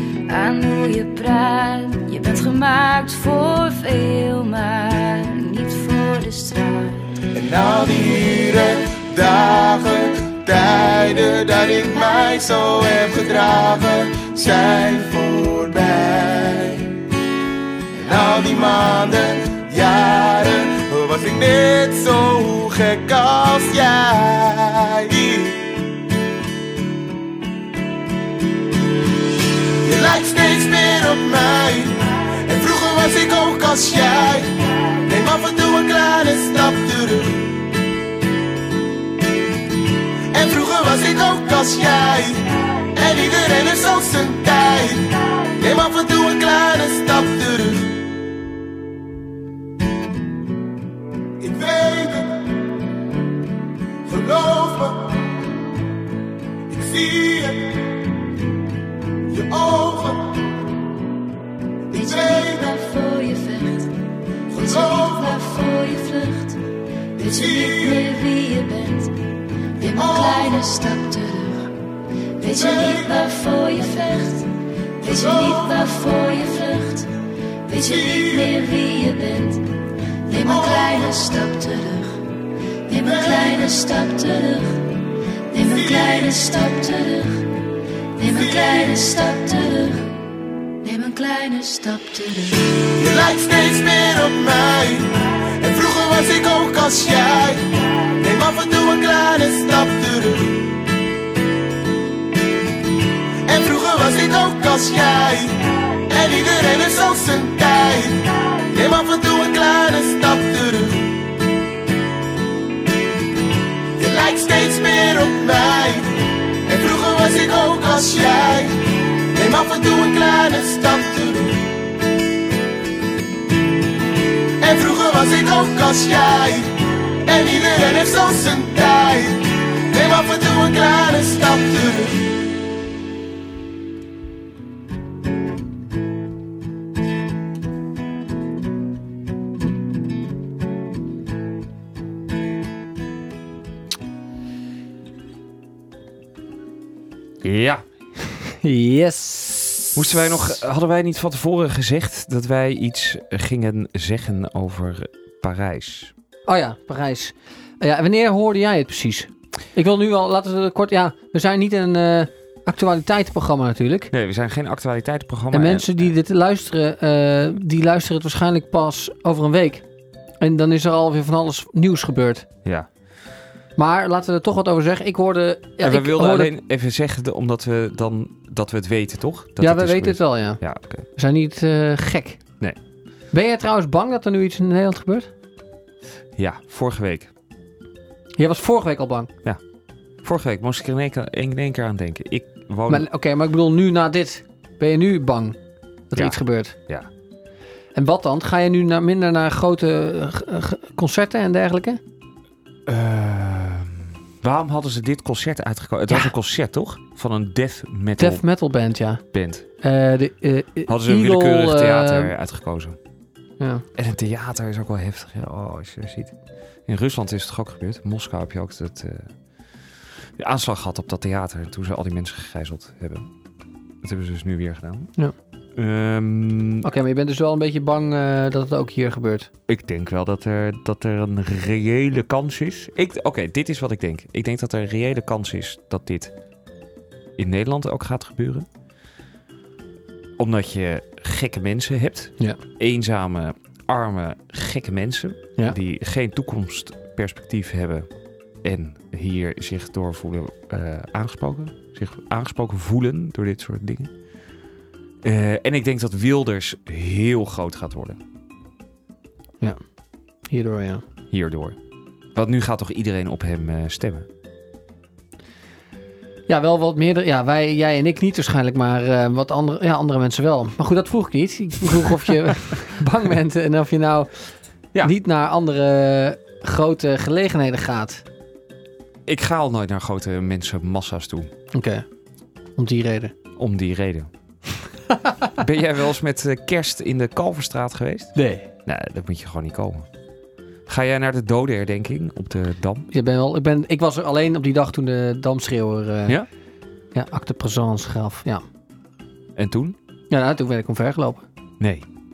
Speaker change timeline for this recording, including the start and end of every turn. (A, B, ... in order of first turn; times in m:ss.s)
0:00.3-0:07.1 A
0:07.3-0:16.9 B
0:17.9-0:25.7 B
0:29.8-0:34.5 B
0:35.0-0:37.5 B
0:40.3-0:48.0 B
0:51.4-0:52.4 B
0:54.0-0:55.2 B
0:56.7-0:57.6 B
0:59.3-1:00.3 B
1:01.9-1:03.9 A
1:04.5-1:06.6 A
1:07.2-1:09.1 A
1:09.8-1:11.7 A
1:12.4-1:14.5 A
1:15.0-1:17.1 A
1:17.7-1:19.6 A
1:20.3-1:22.2 A
1:22.9-1:24.9 A
1:25.5-1:27.4 A
1:28.2-1:30.1 A
1:30.8-1:32.6 A
1:33.0-1:37.6 B
1:38.2-1:40.7 B
1:43.4-1:51.1 B
1:54.0-1:56.1 B
1:56.6-1:58.7 B
1:59.3-2:01.6 B
2:04.6-2:06.7 B
2:07.2-2:12.2 B
2:27.4-2:27.8 C
2:28.4-2:30.2 D
2:29.9-2:36.1 C
2:36.5-2:44.1 D
2:44.1-2:46.1 C
2:45.5-2:49.8 D
2:50.4-2:52.5 D
2:53.8-2:56.5 D
2:55.8-3:01.1 C
2:59.6-3:00.6 D
3:01.1-3:02.4 D
3:03.3-3:05.3 D
3:06.4-3:07.3 C
3:08.4-3:09.3 D
3:10.2-3:13.0 C
3:12.9-3:15.6 D
3:16.1-3:16.7 D
3:16.1-3:17.1 C
3:17.9-3:22.0 D
3:22.9-3:28.4 C
3:28.2-3:29.2 D
3:29.3-3:29.6 C
3:29.8-3:32.3 D
3:30.9-3:33.0 C
3:33.6-3:33.8 D
3:34.0-3:39.3 C
3:40.4-3:43.3 C
3:44.0-3:45.1 C
3:45.8-3:46.8 C
3:46.8-3:49.5 D
3:49.7-3:56.3 C
3:57.4-3:58.7 C
4:00.4-4:08.1 C
4:08.6-4:14.1 C
4:15.2-4:18.2 C
4:20.5-4:21.0 D
4:21.3-4:21.8 C
4:22.3-4:24.3 C
4:26.5-4:34.5 D
4:35.0-4:38.2 D
4:39.2-4:41.5 C
4:41.7-4:42.0 D
4:42.8-4:43.3 D
4:43.6-4:44.3 C
4:45.6-4:50.0 C
4:48.3-4:48.6 D
4:50.9-4:53.1 C
4:53.1-4:56.4 D
4:57.1-4:58.6 D
4:59.6-5:00.0 C
5:00.3-5:01.4 D
5:01.8-5:02.0 C